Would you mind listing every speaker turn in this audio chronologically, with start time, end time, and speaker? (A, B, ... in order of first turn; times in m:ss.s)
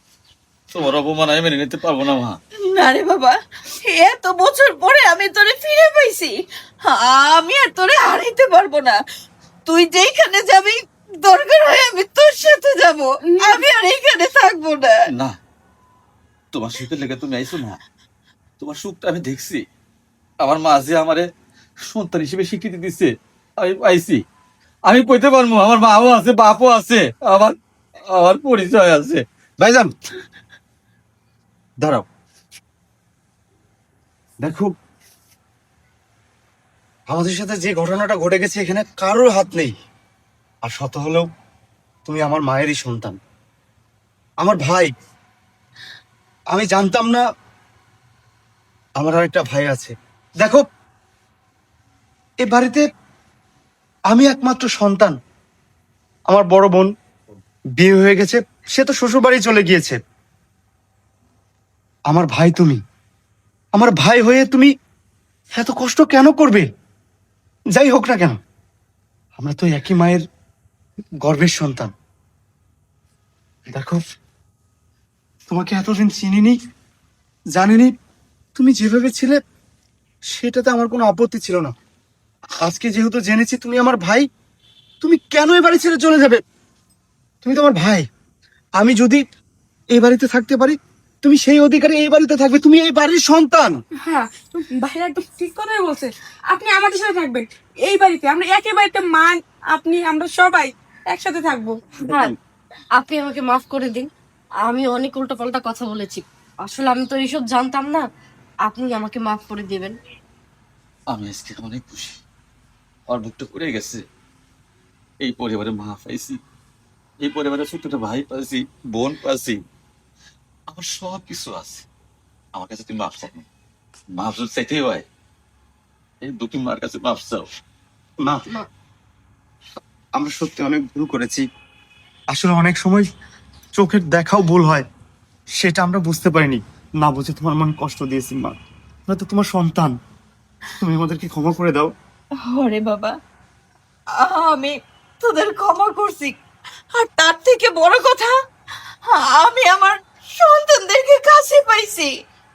0:00.7-0:02.4 A
0:02.7-0:06.3 B
0:06.8-0:09.0 B
0:09.6-0:14.9 B
0:13.4-0:13.6 C
0:16.5-0:17.8 A
0:18.6-0:19.6 A
0:20.4-0:21.2 A
0:21.8-0:24.2 A
0:24.9-0:27.6 A
0:28.1-0:29.2 A
0:29.6-0:29.9 D
0:34.4-0:34.7 D
0:37.1-0:39.7 D
0:40.6-0:41.3 D
0:42.0-0:43.2 D
0:44.4-0:44.9 D
0:46.5-0:47.2 D
0:49.0-0:50.6 D
0:52.4-0:52.8 D
0:54.1-0:55.2 D
0:56.3-0:56.9 D
0:57.8-1:00.0 D
1:02.1-1:02.8 D
1:03.7-1:04.7 D
1:05.6-1:06.6 D
1:07.7-1:08.4 D
1:09.4-1:10.2 D
1:11.2-1:11.9 D
1:13.7-1:14.0 D
1:15.5-1:16.6 D
1:17.5-1:17.9 D
1:18.6-1:19.4 D
1:20.3-1:21.7 D
1:22.6-1:24.3 D
1:25.0-1:26.4 D
1:27.4-1:28.0 D
1:28.8-1:29.2 D
1:29.9-1:33.8 D
1:34.0-1:42.3 C
1:43.0-1:44.1 E
1:44.6-1:48.0 E
1:48.6-1:50.0 E
1:51.1-1:52.2 A
1:53.1-1:54.0 A
1:55.2-1:56.4 A
1:57.2-1:59.6 A
2:00.7-2:01.8 A
2:02.5-2:03.4 A
2:04.1-2:05.0 A
2:06.2-2:07.5 A
2:08.2-2:08.5 D
2:10.2-2:11.4 D
2:12.3-2:13.0 D
2:13.7-2:14.8 D
2:15.6-2:18.5 D
2:19.1-2:19.9 D
2:20.8-2:21.9 D
2:22.4-2:23.1 B
2:24.2-2:26.3 B
2:27.0-2:28.3 B
2:29.1-2:32.1 B